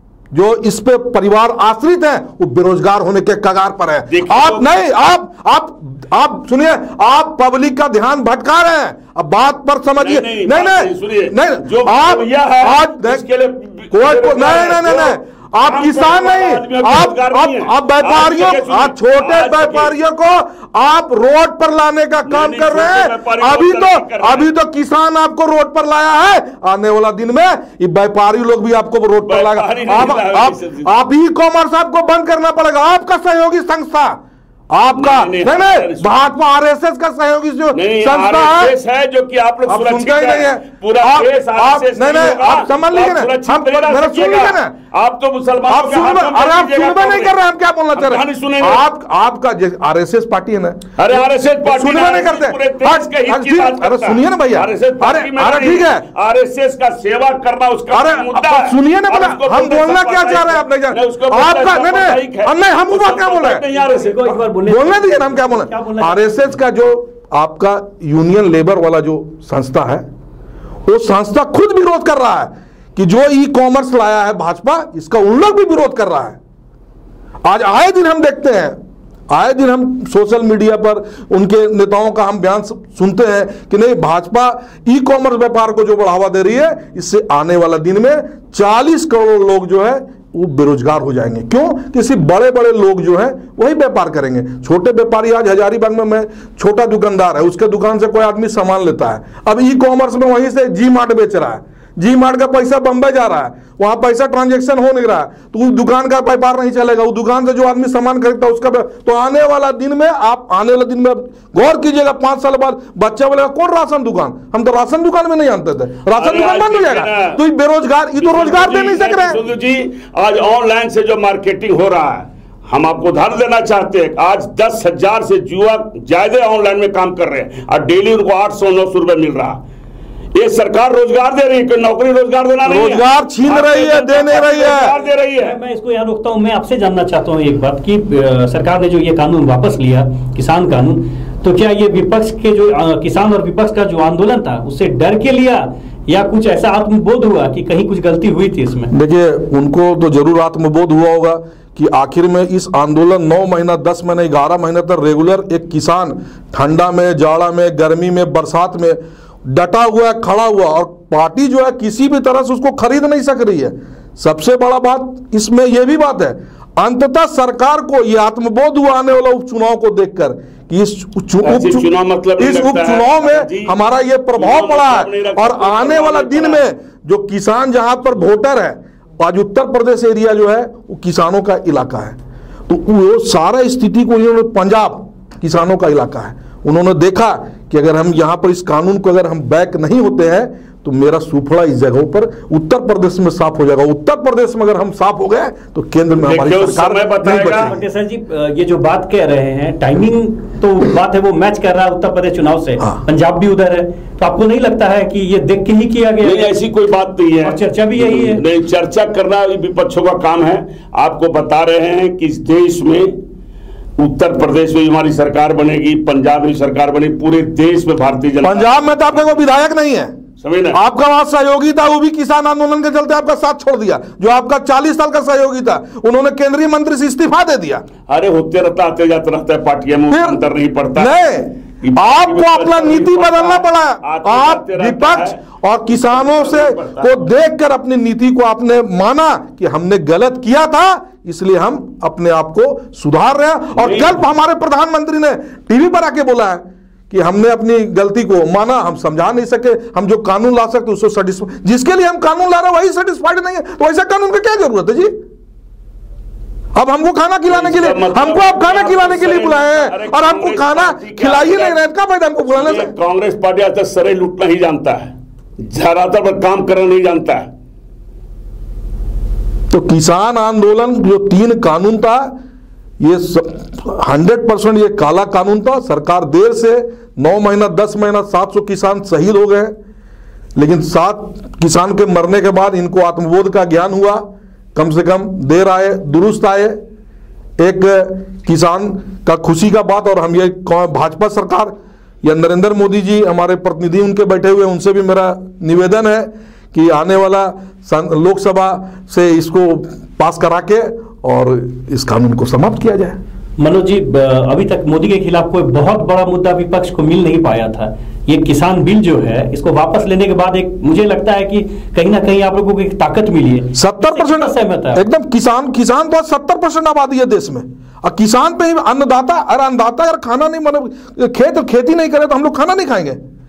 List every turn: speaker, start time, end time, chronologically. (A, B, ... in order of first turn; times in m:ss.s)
0:00.3-0:13.2 A
0:04.1-0:04.7 B
0:10.0-0:19.9 B
0:13.9-0:38.7 A
0:22.3-0:24.5 B
0:29.3-0:30.9 B
0:34.9-0:36.1 B
0:37.7-0:47.3 B
0:39.7-0:44.7 A
0:45.7-0:56.0 A
0:47.9-0:48.8 B
0:51.0-1:04.3 B
0:57.9-1:03.6 A
1:03.7-1:06.6 C
1:04.6-1:10.0 A
1:10.8-1:16.4 A
1:17.4-1:18.8 A
1:19.3-1:59.4 A
1:56.2-1:57.4 B
1:58.2-2:09.6 B
2:10.3-2:15.6 B
2:12.6-2:15.0 A
2:15.4-2:28.9 C
2:28.9-2:51.8 A
2:51.4-2:53.7 B
2:52.4-3:17.8 A
2:54.3-2:56.6 B
3:16.2-3:17.7 B
3:17.4-3:26.5 C
3:26.2-3:33.1 B
3:27.4-3:28.4 C
3:34.0-3:39.4 B
3:38.4-3:40.1 A
3:40.4-3:40.8 B
3:40.7-3:47.8 A
3:48.1-3:51.1 B
3:50.1-3:50.4 A
3:51.0-4:15.1 A
3:51.8-3:55.4 B
3:55.9-3:57.2 B
4:03.8-4:04.2 B
4:16.7-4:22.9 A
4:17.5-4:21.8 B
4:22.5-4:27.5 B
4:29.7-4:32.3 A
4:33.0-4:39.8 A
4:40.6-4:46.8 A
4:47.6-5:03.2 A
5:03.6-5:15.0 C
5:13.7-5:23.2 A